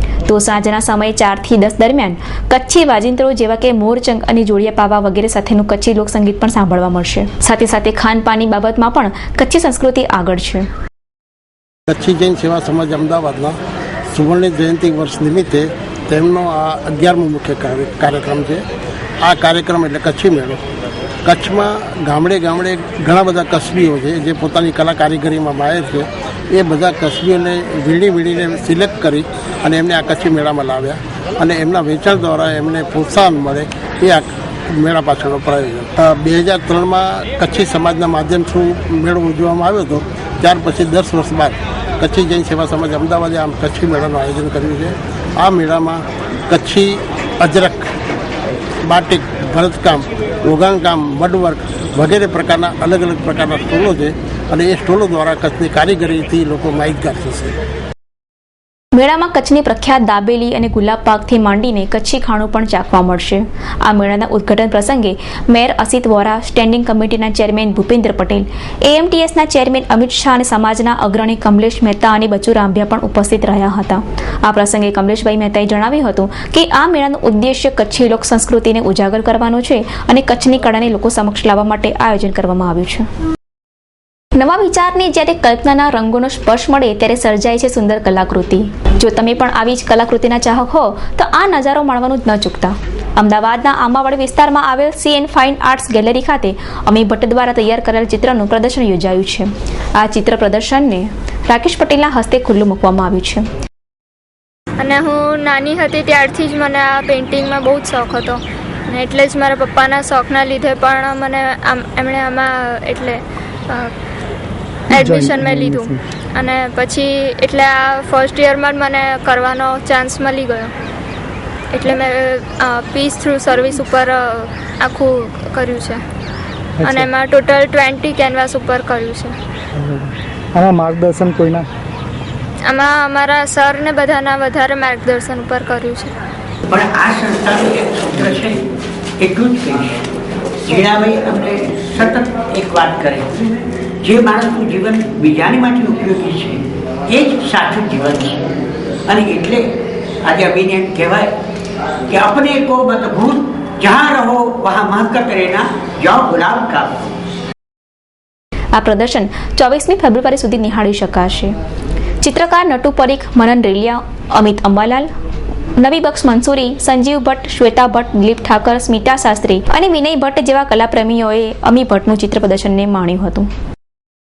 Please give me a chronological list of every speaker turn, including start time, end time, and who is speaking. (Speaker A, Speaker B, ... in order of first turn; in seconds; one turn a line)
Speaker A: 0.2-10.7
Speaker B: 11.9-13.6
Speaker B: 14.1-18.6
Speaker B: 19.2-20.6
Speaker B: 21.2-47.9
Speaker B: 48.8-57.6
Speaker A: 58.9-83.1
Speaker A: 84.3-103.5
Speaker C: 104.8-113.9
Speaker C: 114.9-120.7
Speaker D: 114.9-116.0
Speaker C: 121.7-126.0
Speaker D: 126.8-127.1
Speaker C: 126.8-129.3
Speaker D: 129.8-131.7
Speaker C: 132.6-136.1
Speaker E: 136.7-138.6
Speaker E: 139.2-140.0
Speaker E: 140.6-143.4
Speaker E: 144.0-148.5
Speaker E: 149.1-149.7
Speaker E: 150.2-151.3
Speaker E: 152.1-157.1
Speaker A: 158.7-161.5
Speaker A: 162.2-165.1
Speaker A: 165.8-173.5